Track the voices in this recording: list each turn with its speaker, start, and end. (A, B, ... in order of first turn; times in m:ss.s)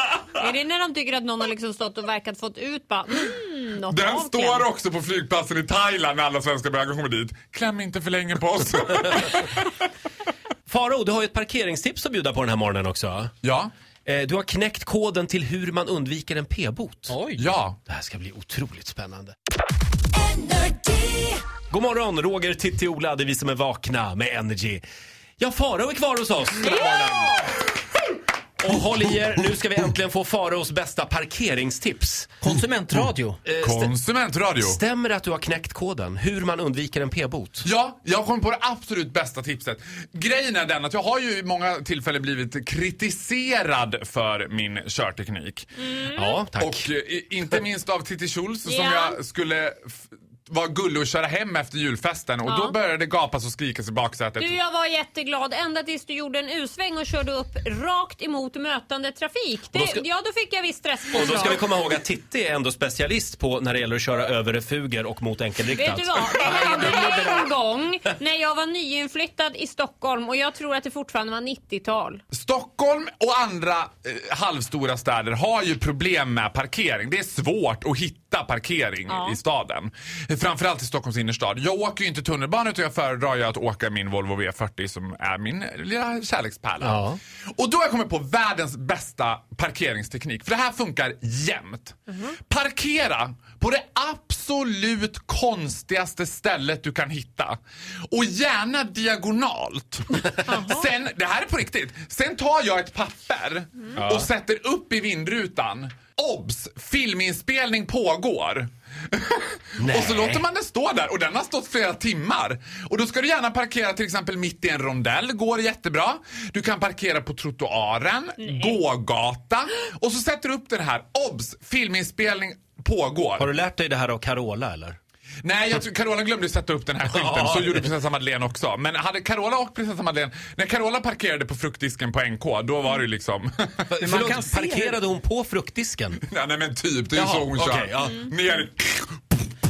0:00.4-0:04.7 A
0:03.9-0:09.7 B
0:10.7-0:13.3 C
0:13.4-0:13.7 B
0:14.1-0:17.1 C
0:17.1-0:17.4 D
0:17.4-0:17.8 B
0:17.9-0:19.3 C
0:21.7-0:24.8 C
0:25.4-0:27.4 C
0:26.7-0:27.2 A
0:28.6-0:32.4 C
0:32.4-0:33.4 D
0:33.4-0:33.9 C
0:33.6-0:34.8 B
0:34.6-0:37.7 C
0:37.6-0:45.7 B
0:45.8-0:46.4 A
0:46.1-0:46.9 C
0:46.6-0:54.6 B
0:48.6-0:49.2 A
0:52.5-0:52.8 A
0:54.4-1:01.7 A
0:59.7-1:00.0 C
1:01.1-1:07.2 C
1:05.7-1:12.2 A
1:12.3-1:27.0 B
1:19.1-1:19.4 A
1:26.8-1:27.2 C
1:27.5-1:37.6 B
1:38.1-2:03.5 B
1:40.4-1:40.9 A
1:44.0-1:44.3 C
1:49.8-1:50.4 C
2:03.4-2:05.0 C
2:05.4-2:13.9 B
2:07.1-2:07.9 C
2:13.9-2:16.2 C
2:14.1-2:14.9 D
2:16.3-2:19.5 B
2:17.1-2:18.2 C